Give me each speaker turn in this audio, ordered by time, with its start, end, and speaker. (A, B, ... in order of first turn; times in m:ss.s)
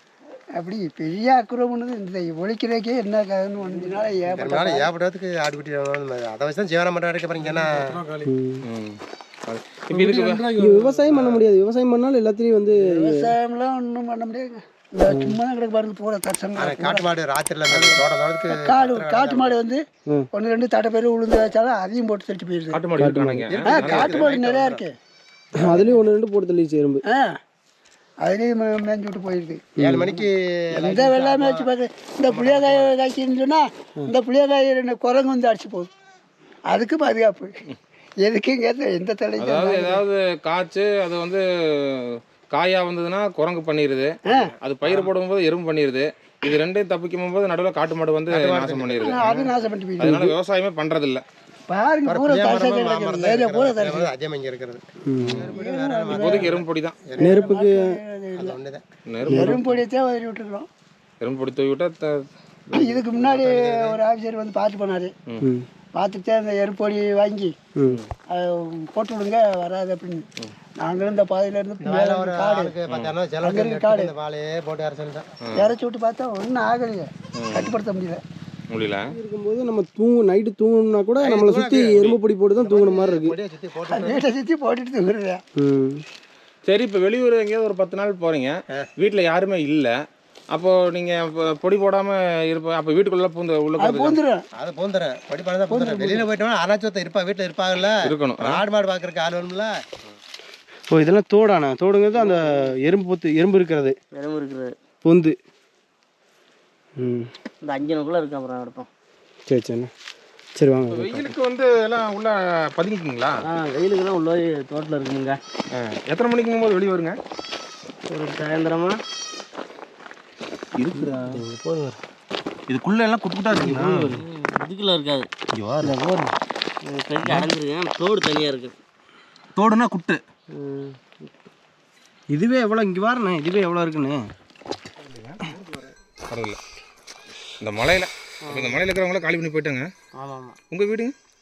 0:00.6-0:04.9 A
0:04.4-0:08.0 B
0:07.4-0:10.7 C
0:08.2-0:08.6 D
0:09.9-0:11.0 A
0:10.6-0:13.3 D
0:12.8-0:17.1 A
0:15.1-0:15.4 D
0:16.6-0:19.6 B
0:17.7-0:22.8 A
0:22.7-0:24.3 C
0:23.0-0:23.5 D
0:23.5-0:24.8 B
0:23.6-0:24.9 A
0:25.6-0:27.0 D
0:27.1-0:27.4 A
0:28.2-0:30.2 A
0:29.8-0:31.7 B
0:29.8-0:30.1 D
0:30.8-0:35.9 A
0:32.2-0:32.9 B
0:36.7-0:37.6 A
0:38.2-0:40.0 A
0:39.4-0:49.3 C
0:44.2-0:44.5 A
0:44.3-0:45.1 B
0:48.3-0:49.5 B
0:49.0-0:50.3 A
0:50.0-0:51.2 C
0:51.7-0:54.1 A
0:52.0-0:57.4 B
0:55.1-0:55.5 D
0:55.2-0:55.5 C
0:55.5-0:56.6 A
0:56.1-0:57.0 C
0:57.2-0:58.6 A
0:57.2-0:57.8 D
0:58.4-0:58.8 B
0:59.1-0:59.6 C
0:59.2-1:00.7 A
0:59.3-0:59.7 D
1:01.2-1:03.0 C
1:02.7-1:05.1 A
1:03.2-1:04.0 B
1:05.4-1:05.7 D
1:05.9-1:07.5 A
1:08.3-1:10.2 A
1:10.8-1:12.7 A
1:11.8-1:15.3 B
1:12.9-1:13.2 C
1:13.4-1:14.1 A
1:15.4-1:15.7 C
1:15.5-1:18.2 A
1:17.4-1:17.7 C
1:18.7-1:19.0 C
1:19.1-1:23.3 D
1:21.2-1:21.9 B
1:22.6-1:24.2 B
1:23.9-1:25.4 A
1:25.6-1:26.0 D
1:26.7-1:29.9 C
1:30.5-1:34.2 C
1:33.8-1:34.4 A
1:34.6-1:39.7 B
1:35.7-1:36.3 A
1:38.0-1:38.6 C
1:40.9-1:43.9 D
1:42.2-1:42.7 E
1:44.1-1:44.7 E
1:45.0-1:45.4 D
1:47.0-1:47.3 D
1:47.6-1:48.9 E
1:49.5-1:49.9 D
1:50.6-1:51.3 D
1:50.9-1:53.4 C
1:53.4-1:55.4 E
1:55.7-1:57.2 C
1:58.1-1:59.0 E
2:00.8-2:01.4 C
2:00.9-2:02.0 D
2:02.7-2:04.2 C
2:03.5-2:04.2 D
2:04.1-2:05.3 E
2:05.8-2:06.3 D
2:06.8-2:08.7 E
2:09.6-2:10.2 C
2:10.5-2:11.3 E
2:12.3-2:14.2 D
2:15.0-2:16.6 C
2:17.6-2:19.8 C
2:18.4-2:18.8 E
2:20.2-2:20.6 E
2:20.7-2:21.1 C